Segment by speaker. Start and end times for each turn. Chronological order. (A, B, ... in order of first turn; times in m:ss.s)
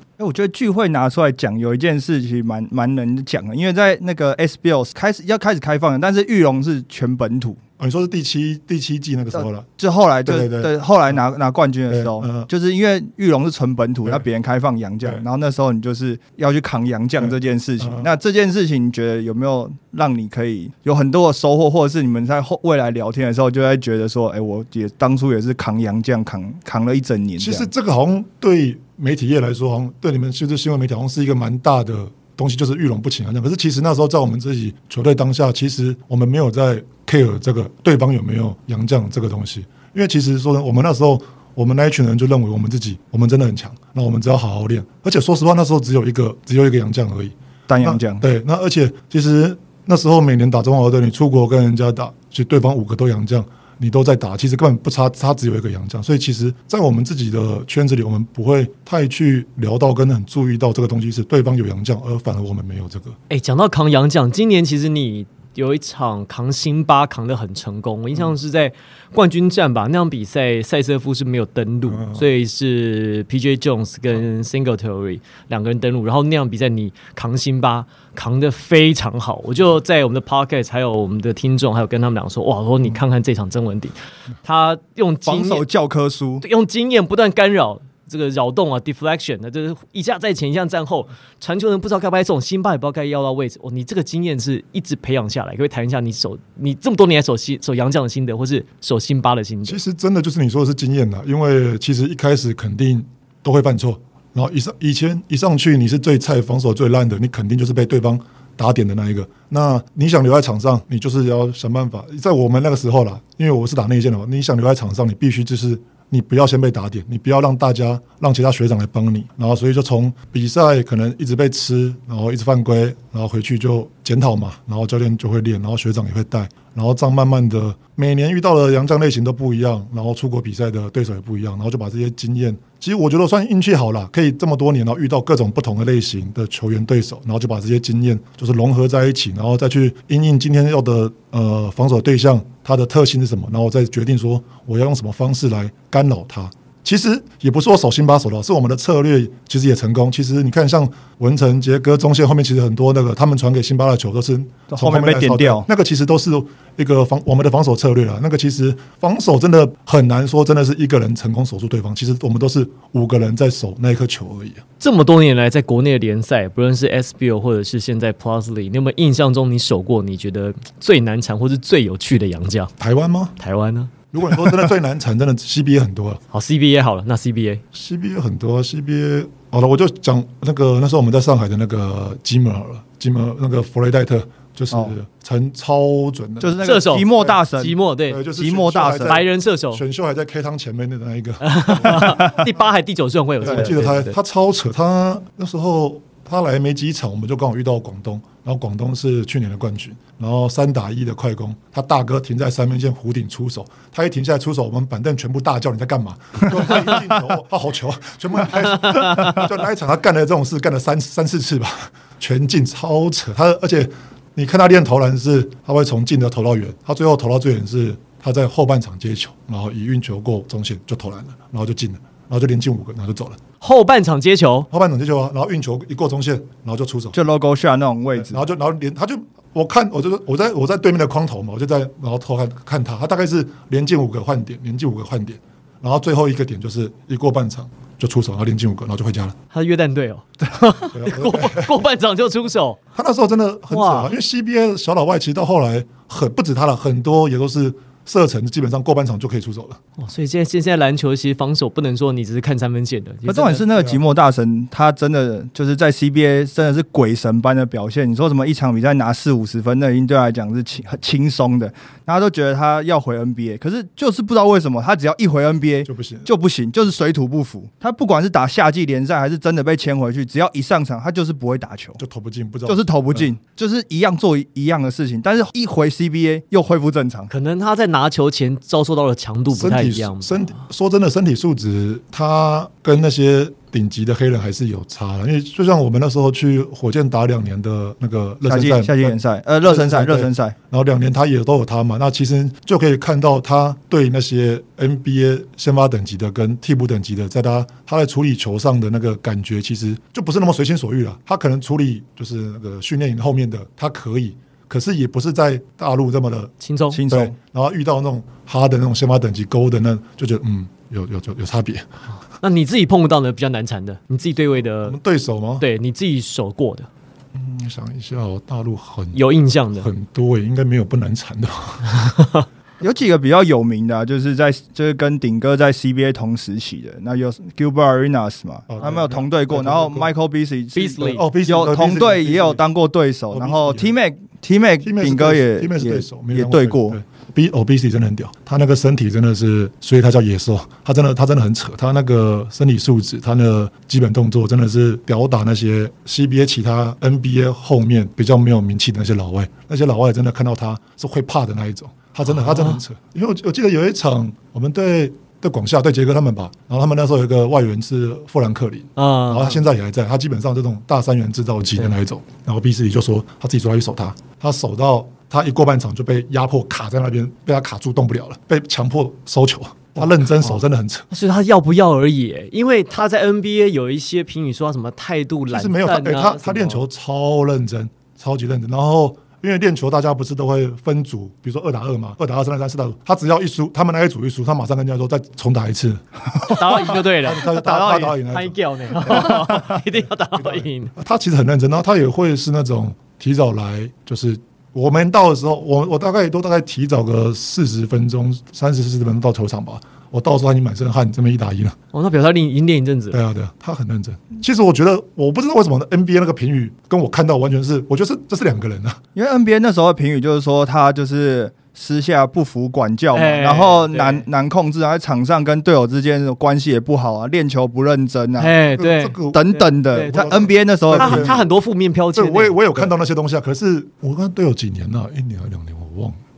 0:00.2-0:07.6 A
0:07.8-0:09.7 B
0:09.3-0:27.7 A
0:10.2-0:11.2 B
0:11.9-0:12.5 B
0:17.2-0:18.1 B
0:27.4-1:03.2 B
0:47.7-0:48.2 A
1:03.3-1:25.6 C
1:11.9-1:12.2 B
1:25.2-1:26.4 A
1:26.4-1:39.8 C
1:39.7-2:44.6 B
2:34.7-2:35.7 A
2:44.8-2:52.7 C
2:52.8-2:53.4 B
2:53.4-2:54.5 C
2:54.1-2:56.2 B
2:56.3-2:57.6 C
2:57.7-3:06.6 B
3:06.4-3:07.8 A
3:06.6-3:08.2 C
3:08.1-3:12.4 B
3:08.4-3:09.2 A
3:09.0-3:09.8 C
3:11.4-3:14.2 C
3:12.0-3:12.3 A
3:13.4-3:43.4 B
3:13.4-3:13.7 A
3:43.6-3:44.7 C
3:44.7-3:47.2 B
3:47.1-3:48.4 A
3:48.2-3:59.4 B
3:59.5-4:02.8 C
4:00.9-4:01.8 B
4:03.0-4:09.8 B
4:03.7-4:04.1 C
4:10.0-4:13.7 C
4:13.3-4:32.0 A
4:13.7-4:14.0 B
4:25.8-4:26.3 B
4:32.0-4:33.3 B
4:32.7-4:37.3 A
4:37.3-4:40.6 C
4:39.5-5:06.5 B
4:48.4-4:50.6 A
5:06.6-5:07.0 C
5:06.9-5:07.4 A
5:07.1-5:11.9 B
5:12.4-5:15.0 C
5:14.8-5:15.7 B
5:15.6-5:16.9 C
5:17.3-5:19.2 B
5:19.1-5:19.9 C
5:19.8-5:21.9 B
5:22.1-5:22.4 C
5:22.8-5:37.0 A
5:28.7-5:30.1 B
5:30.8-5:31.3 C
5:31.1-5:32.6 B
5:33.3-5:34.0 B
5:34.8-6:11.1 B
5:52.3-5:52.8 C
5:59.0-5:59.6 C
6:10.4-6:16.8 C
6:15.5-6:26.0 B
6:26.4-6:28.2 A
6:26.5-6:30.9 C
6:26.9-6:41.8 B
6:29.1-6:29.6 A
6:41.9-6:43.2 C
6:43.1-6:49.0 B
6:49.2-6:58.5 A
6:53.1-6:54.3 C
6:58.4-7:02.9 C
6:58.7-7:01.4 B
6:59.3-7:01.4 A
7:02.2-7:06.2 B